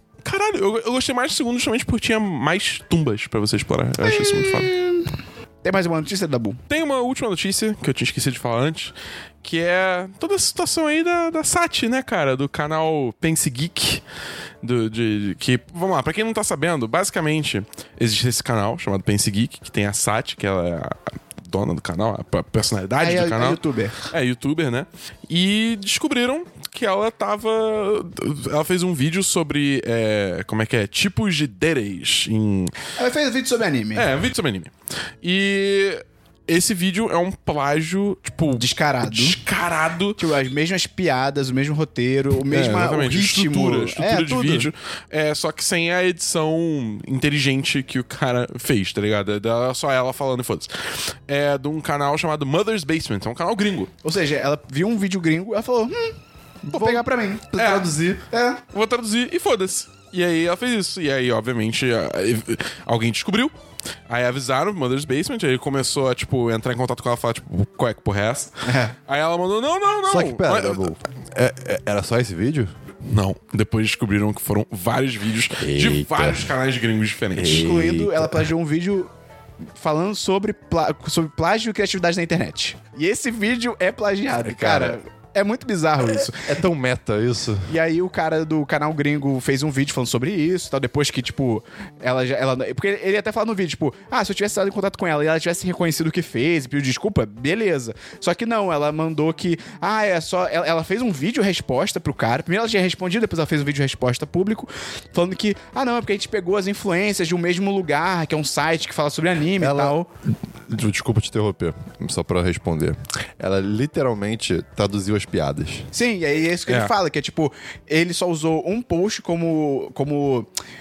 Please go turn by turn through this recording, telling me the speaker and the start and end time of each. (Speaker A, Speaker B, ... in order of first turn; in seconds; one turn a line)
Speaker A: 0.2-4.7
Speaker B: 4.0-5.1
Speaker B: 5.6-6.6
Speaker A: 6.7-14.0
Speaker A: 14.6-32.7
Speaker B: 23.0-24.1
Speaker B: 33.0-34.1
Speaker A: 33.9-40.2
Speaker B: 38.5-39.4
Speaker B: 40.2-44.7
Speaker A: 42.5-53.9
Speaker B: 54.0-56.2
Speaker A: 56.7-57.0
Speaker B: 56.7-58.6
Speaker A: 57.5-57.9
Speaker C: 57.6-58.2
Speaker A: 58.7-63.5
Speaker A: 64.1-68.5
Speaker B: 68.6-68.9
Speaker A: 69.1-70.9
Speaker C: 70.1-72.7
Speaker A: 73.1-77.7
Speaker C: 75.6-76.5
Speaker C: 77.3-78.5
Speaker B: 77.4-79.1
Speaker B: 79.8-86.5
Speaker C: 84.4-85.0
Speaker C: 86.0-87.7
Speaker B: 87.7-110.1
Speaker C: 109.6-110.0
Speaker C: 110.7-115.9
Speaker B: 115.9-120.5
Speaker A: 116.7-116.9